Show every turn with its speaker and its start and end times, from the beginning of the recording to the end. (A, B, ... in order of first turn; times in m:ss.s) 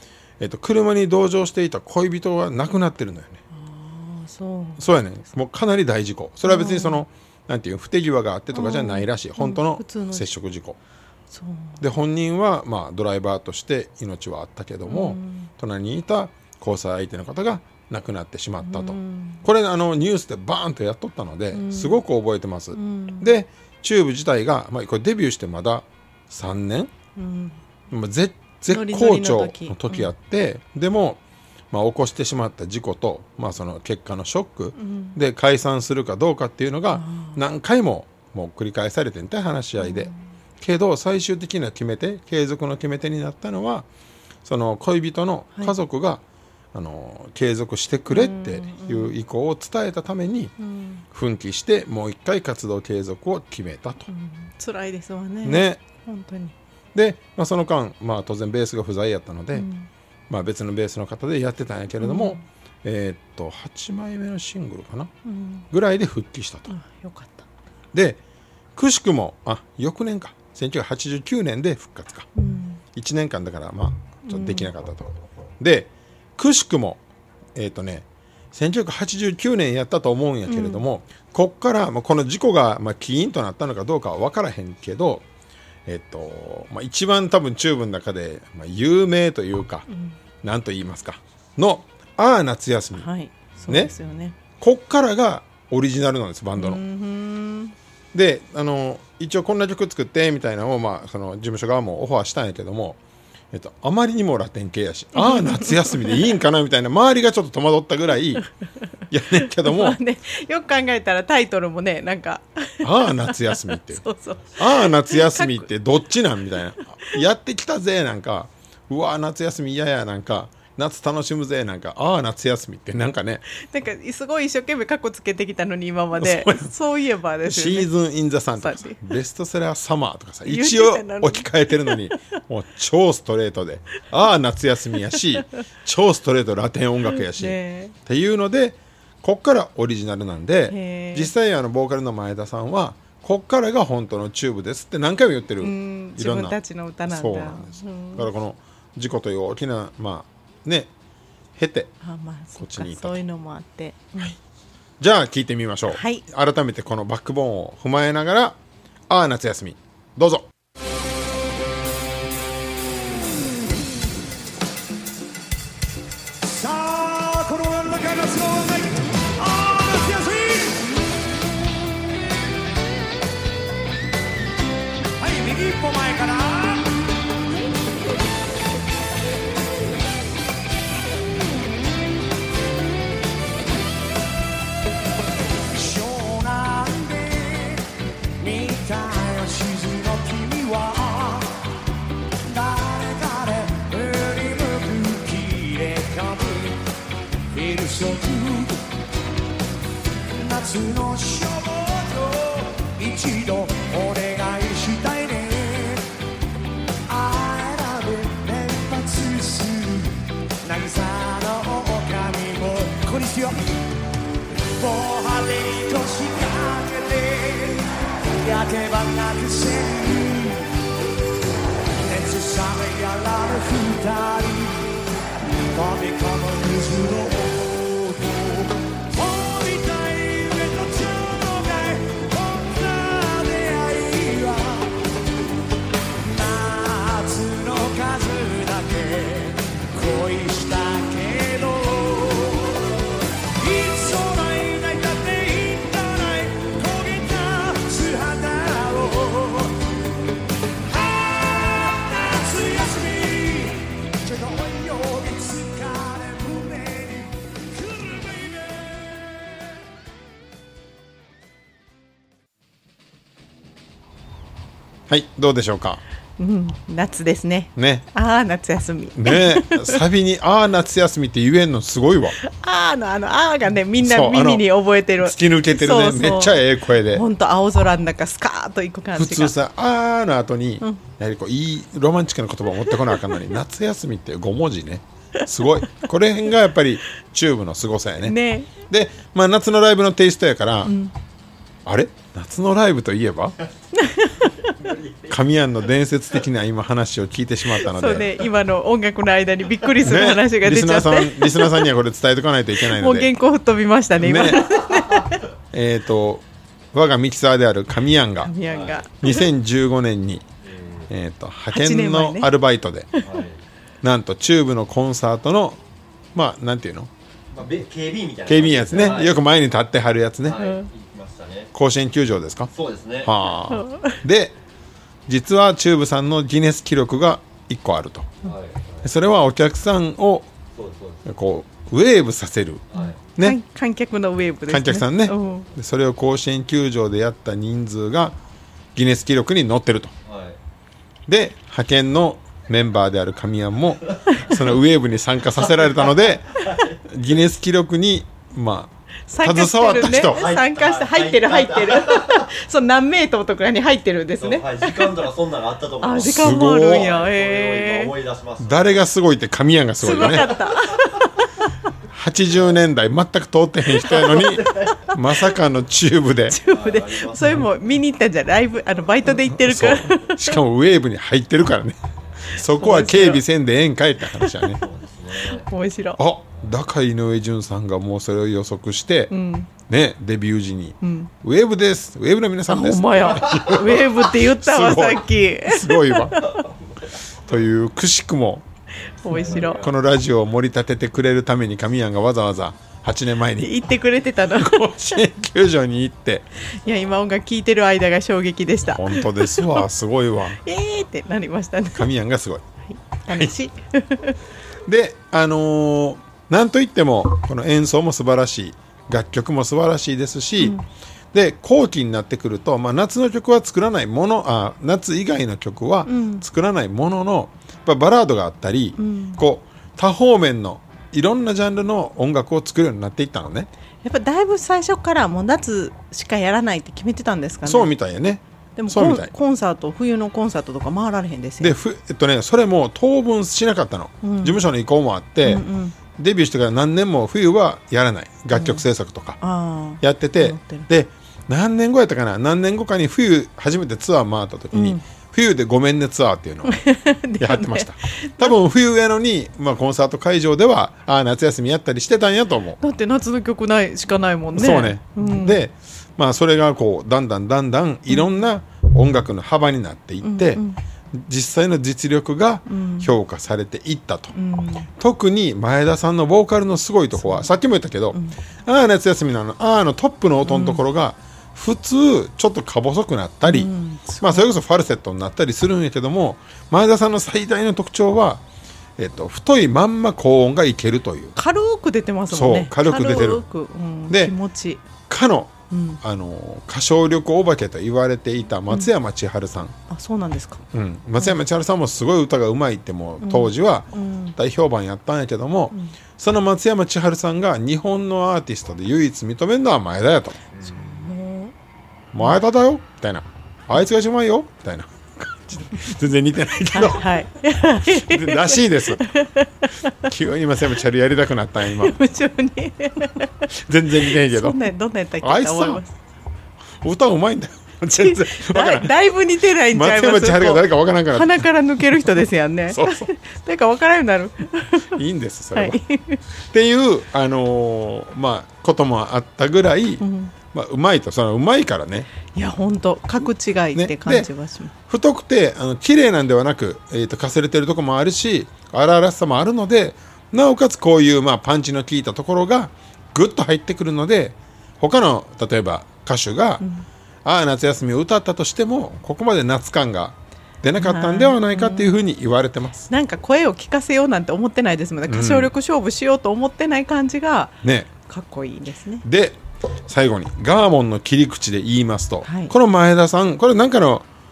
0:00.4-0:03.4 A
0:03.5-0:04.9 B
0:04.8-0:10.8 A
0:06.4-0:07.0 B
0:08.5-0:10.3 B
0:11.3-0:11.8 B
0:11.8-0:26.9 A
0:14.9-0:15.5 B
0:18.6-0:19.4 B
0:21.5-0:22.0 B
0:22.7-0:23.3 B
0:27.2-0:27.6 B
0:27.9-0:31.2 A
0:28.7-0:30.1 B
0:31.7-0:43.9 A
0:34.8-0:35.2 B
0:36.9-0:37.4 B
0:39.8-0:40.1 B
0:44.4-0:46.2 A
0:46.7-0:50.5 A
0:48.1-0:49.1 B
0:50.6-0:51.0 B
0:51.1-0:54.1 A
0:54.1-0:56.5 B
0:55.4-0:55.8 A
0:56.9-0:59.7 A
0:59.5-0:59.9 B
1:00.3-1:05.1 A
1:02.0-1:02.4 B
1:05.2-1:05.6 B
1:05.7-1:06.7 A
1:06.7-1:07.5 B
1:07.9-1:08.2 A
1:08.7-1:12.3 A
1:12.4-1:12.8 B
1:12.9-1:17.0 A
1:14.2-1:14.7 B
1:17.5-1:25.2 A
1:20.5-1:20.8 B
1:25.8-1:29.9 A
1:29.9-1:30.2 B
1:30.4-1:33.1 A
1:33.0-1:34.4 B
1:34.6-1:36.8 A
1:36.6-1:37.7 B
1:38.1-1:43.0 A
1:43.5-1:48.4 A
1:45.1-1:46.3 B
1:49.1-1:50.0 A
1:49.4-1:55.7 B
1:52.8-1:54.0 A
1:54.6-2:03.5 A
2:03.6-2:07.9 B
2:06.2-2:06.7 A
2:07.4-2:30.9 A
2:08.6-2:09.0 B
2:10.4-2:12.2 B
2:17.3-2:17.9 B
2:20.7-2:21.3 B
2:25.6-2:28.3 B
2:31.6-2:31.9 A
2:32.0-2:34.3 B
2:32.6-2:33.2 A
2:35.0-2:38.6 A
2:35.9-2:36.2 B
2:39.1-2:40.5 A
2:46.4-2:50.9 C
2:55.2-2:57.0 C
3:05.7-3:07.8 C
3:08.4-3:11.6 C
3:12.4-3:16.8 C
3:17.5-3:18.8 C
3:20.3-3:26.0 C
3:27.1-3:33.7 C
3:34.7-3:40.8 C
3:42.0-3:44.9 C
3:45.6-3:55.0 C
3:56.2-4:02.8 C
4:03.6-4:09.8 C
4:10.8-4:18.9 C
4:25.1-4:26.0 A
4:26.4-4:30.0 B
4:27.8-4:28.0 A
4:29.1-4:32.4 A
4:32.4-4:39.6 B
4:34.0-4:34.7 A
4:35.2-4:37.2 A
4:39.1-4:50.9 A
4:48.2-4:48.7 B
4:50.8-4:51.1 B
4:51.8-4:53.6 A
4:54.0-4:54.7 B
4:54.4-4:55.4 D
4:55.3-4:58.3 A
4:57.8-5:01.9 B
5:00.0-5:03.3 A
5:02.8-5:05.4 B
5:04.2-5:04.7 A
5:04.6-5:05.2 D
5:05.7-5:08.5 A
5:08.4-5:09.5 B
5:08.6-5:09.1 D
5:09.2-5:10.4 A
5:10.6-5:11.1 D
5:11.1-5:13.1 A
5:11.7-5:12.5 B
5:13.2-5:13.6 D
5:14.0-5:15.8 A
5:16.3-5:17.1 A
5:17.5-5:19.4 D
5:18.5-5:20.6 A
5:20.4-5:21.7 D
5:20.6-5:20.9 B
5:21.7-5:22.7 A
5:22.7-5:23.3 D
5:23.2-5:24.5 A
5:23.7-5:24.2 B
5:25.3-5:28.3 A
5:28.4-5:29.1 D
5:29.0-5:30.5 A
5:30.7-5:31.2 D
5:31.2-5:33.6 A
5:32.9-5:33.2 D
5:32.9-5:35.7 B
5:34.7-5:38.4 A
5:38.9-5:40.1 A
5:40.2-5:40.6 D
5:41.3-5:50.4 A
5:44.3-5:44.6 B
5:45.8-5:47.0 D
5:49.3-5:55.2 B
5:50.2-5:52.5 D
5:54.4-5:59.0 D
5:56.0-5:58.1 B
5:56.2-5:57.1 A
5:58.6-6:00.5 A
6:00.0-6:01.0 B
6:00.2-6:01.2 D
6:02.1-6:06.6 A
6:03.9-6:04.4 B
6:04.1-6:05.0 D
6:06.5-6:10.6 B
6:06.6-6:07.6 D
6:09.4-6:14.8 A
6:12.6-6:13.4 B
6:14.4-6:14.7 B
6:14.7-6:15.6 D
6:15.6-6:16.2 B
6:16.2-6:19.3 A
6:19.3-6:19.7 B
6:19.9-6:26.4 A
6:21.0-6:21.3 B
6:22.7-6:26.6 B
6:23.3-6:23.9 D
6:27.4-6:28.6 A
6:29.2-6:29.8 B
6:29.3-6:30.0 D
6:29.5-6:33.8 A
6:33.6-6:35.2 B
6:34.5-6:36.4 A
6:36.8-6:39.8 B
6:38.9-6:40.6 A
6:40.6-6:42.1 B
6:41.9-6:42.6 A
6:42.9-6:44.4 B
6:43.3-6:43.5 A
6:44.8-6:50.8 A
6:50.6-6:50.8 B
6:51.3-7:03.7 A
6:56.0-6:56.4 B
6:59.0-6:59.4 B
7:04.0-7:07.9 B
7:07.6-7:09.3 A
7:08.8-7:11.8 B
7:11.6-7:15.6 A
7:14.2-7:14.6 B
7:15.4-7:16.0 B
7:16.2-7:19.4 A
7:18.5-7:18.8 B
7:19.4-7:20.9 B
7:20.0-7:26.8 A
7:24.7-7:25.0 B
7:26.6-7:28.6 B
7:27.4-7:32.8 A
7:32.8-7:35.6 B
7:34.5-7:40.6 A
7:38.1-7:38.4 B
7:40.2-7:40.8 B
7:41.1-7:44.3 A
7:42.6-7:43.1 B
7:44.3-7:44.9 B
7:44.9-7:58.4 A
7:47.2-7:47.5 B
7:50.4-7:50.8 B
7:53.4-7:54.5 B
7:59.0-8:01.3 A
8:01.4-8:04.8 B
8:02.3-8:03.4 A
8:04.1-8:04.3 A
8:05.1-8:09.8 A
8:05.7-8:06.0 B
8:09.9-8:10.6 B
8:10.7-8:20.4 A
8:13.2-8:14.4 B
8:20.5-8:21.1 D
8:20.6-8:21.5 B
8:22.1-8:27.2 A
8:26.7-8:30.1 B
8:27.8-8:29.0 A
8:30.0-8:32.0 A
8:31.7-8:35.9 B
8:33.5-8:34.6 A
8:35.2-8:35.8 A
8:36.8-8:39.0 A
8:38.0-8:45.0 B
8:39.7-8:42.0 A
8:42.7-8:43.1 A
8:44.8-8:45.8 A
8:45.5-8:46.2 B
8:46.5-8:52.1 A
8:50.0-8:50.3 B
8:52.3-8:54.7 B
8:53.7-8:54.3 A
8:54.9-9:06.6 A
9:06.6-9:06.8 B
9:07.2-9:12.9 A
9:10.8-9:12.0 B
9:12.9-9:17.5 B
9:15.1-9:15.5 A
9:17.6-9:17.9 A
9:18.1-9:19.0 B
9:19.0-9:24.0 A
9:22.2-9:22.5 B